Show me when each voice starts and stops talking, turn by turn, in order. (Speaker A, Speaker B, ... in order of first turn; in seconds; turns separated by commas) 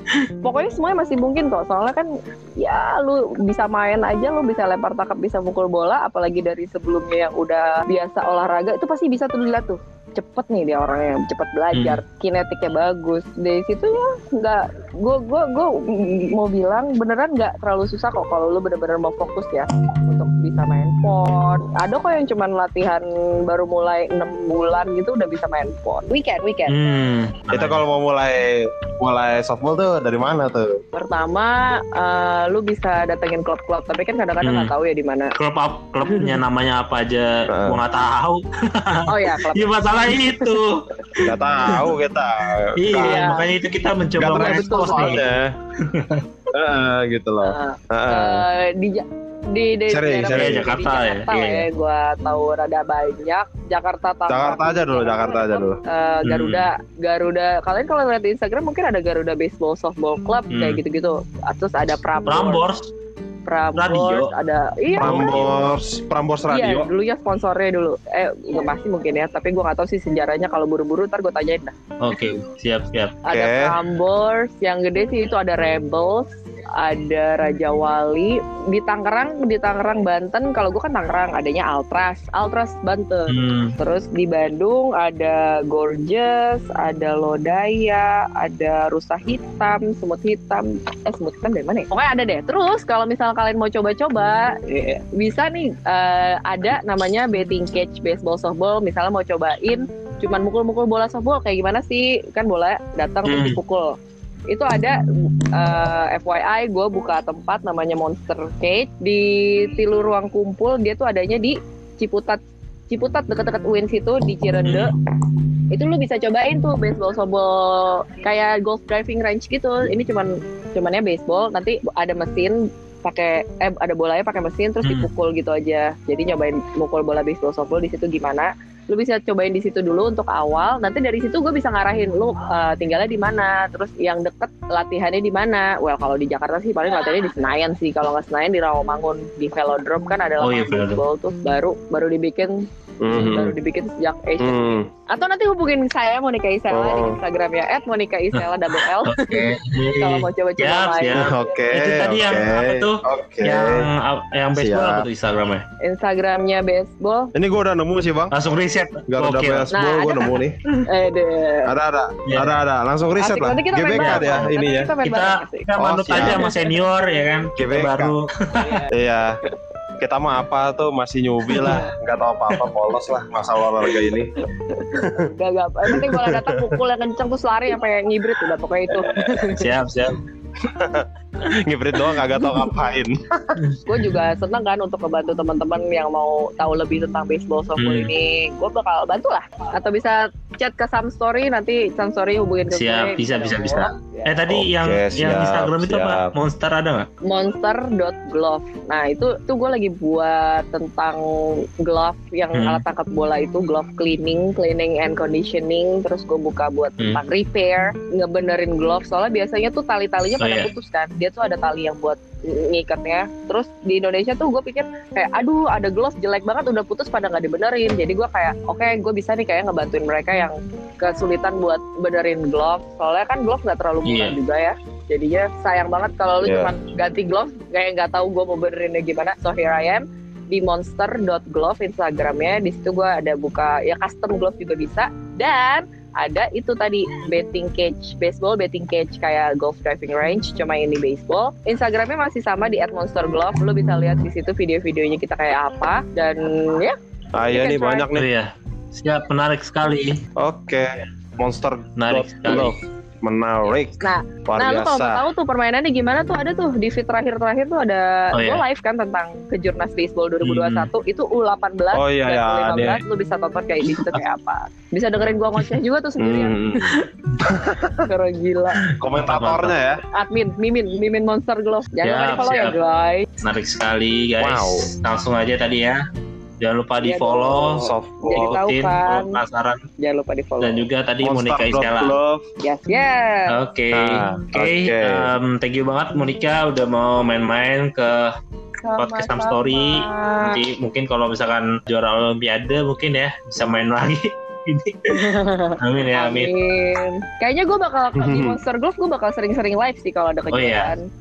Speaker A: 0.4-26.8, Speaker B: 11.7-12.0, Speaker B: 26.7-27.8, Speaker C: 27.5-30.8, Speaker A: 30.9-35.3, Speaker B: 34.4-34.7, Speaker B: 35.4-41.9, Speaker A: 36.0-36.4, Speaker C: 37.5-37.8, Speaker A: 39.1-40.5, Speaker C: 41.2-43.3, Speaker B: 42.8-45.2, Speaker A: 42.9-43.5, Speaker C: 44.2-45.5, Speaker A: 44.2-45.3, Speaker B: 45.8-46.2, Speaker C: 46.5-48.4, Speaker A: 47.4-62.6, Speaker C: 49.9-50.7, Speaker B: 50.3-51.7, Speaker C: 54.3-55.8, Speaker B: 56.2-56.6, Speaker B: 60.5-60.8, Speaker B: 62.3-62.9, Speaker A: 63.5-65.6, Speaker B: 63.8-64.3, Speaker B: 65.0-65.5, Speaker C: 65.0-66.9, Speaker A: 66.5-71.7, Speaker B: 72.0-73.2, Speaker A: 73.2-104.0, Speaker C: 73.3-73.8, Speaker B: 83.3-83.7, Speaker B: 103.2-103.6, Speaker A: 104.5-114.9, Speaker B: 114.6-114.9, Speaker A: 115.7-151.6, Speaker B: 124.8-125.1, Speaker B: 140.4-141.0, Speaker C: 143.0-143.6, Speaker C: 144.4-144.9, Speaker C: 146.7-147.2, Speaker B: 148.3-155.6, Speaker C: 151.1-153.9, Speaker C: 154.6-155.1, Speaker A: 155.8-157.3, Speaker C: 157.3-158.3, Speaker B: 158.3-159.7, Speaker C: 159.1-160.6, Speaker A: 159.7-161.7, Speaker C: 161.6-164.9, Speaker B: 162.3-162.5, Speaker A: 163.2-166.7, Speaker B: 164.0-164.5, Speaker B: 165.0-168.8, Speaker C: 165.8-166.4, Speaker C: 167.6-168.1, Speaker A: 168.6-168.9, Speaker C: 168.9-169.4, Speaker C: 170.0-174.3, Speaker B: 171.5-171.8, Speaker A: 174.6-179.6, Speaker C: 175.0-175.3, Speaker C: 175.9-176.8, Speaker C: 179.0-179.6, Speaker B: 179.6-180.2, Speaker C: 180.6-183.6, Speaker B: 183.6-183.8, Speaker A: 183.9-194.4, Speaker B: 187.8-188.1, Speaker B: 192.7-197.1, Speaker C: 194.5-196.3, Speaker A: 197.2-247.0, Speaker B: 202.5-202.8, Speaker B: 210.4-210.7, Speaker B: 224.0-224.3, Speaker C: 226.4-226.7, Speaker C: 247.3-248.3, Speaker A: 247.5-248.1, Speaker B: 248.2-250.2, Speaker C: 250.4-255.2, Speaker B: 252.0-252.7, Speaker A: 254.0-267.1, Speaker B: 258.3-258.6, Speaker B: 260.4-260.9, Speaker C: 261.9-263.0, Speaker C: 266.2-268.0, Speaker A: 268.0-268.8, Speaker C: 269.0-270.0, Speaker B: 269.1-269.7, Speaker A: 270.1-273.3, Speaker B: 272.0-272.8, Speaker B: 273.4-276.0, Speaker C: 274.4-274.9, Speaker B: 276.6-279.8, Speaker A: 277.0-279.4, Speaker C: 277.7-278.6, Speaker A: 280.0-280.9, Speaker B: 280.6-282.1, Speaker C: 281.2-282.4, Speaker A: 282.6-283.5, Speaker B: 283.5-288.3, Speaker C: 283.9-285.3, Speaker A: 288.8-290.6, Speaker B: 289.0-296.5, Speaker A: 295.1-301.1, Speaker C: 298.1-298.6, Speaker B: 300.5-300.9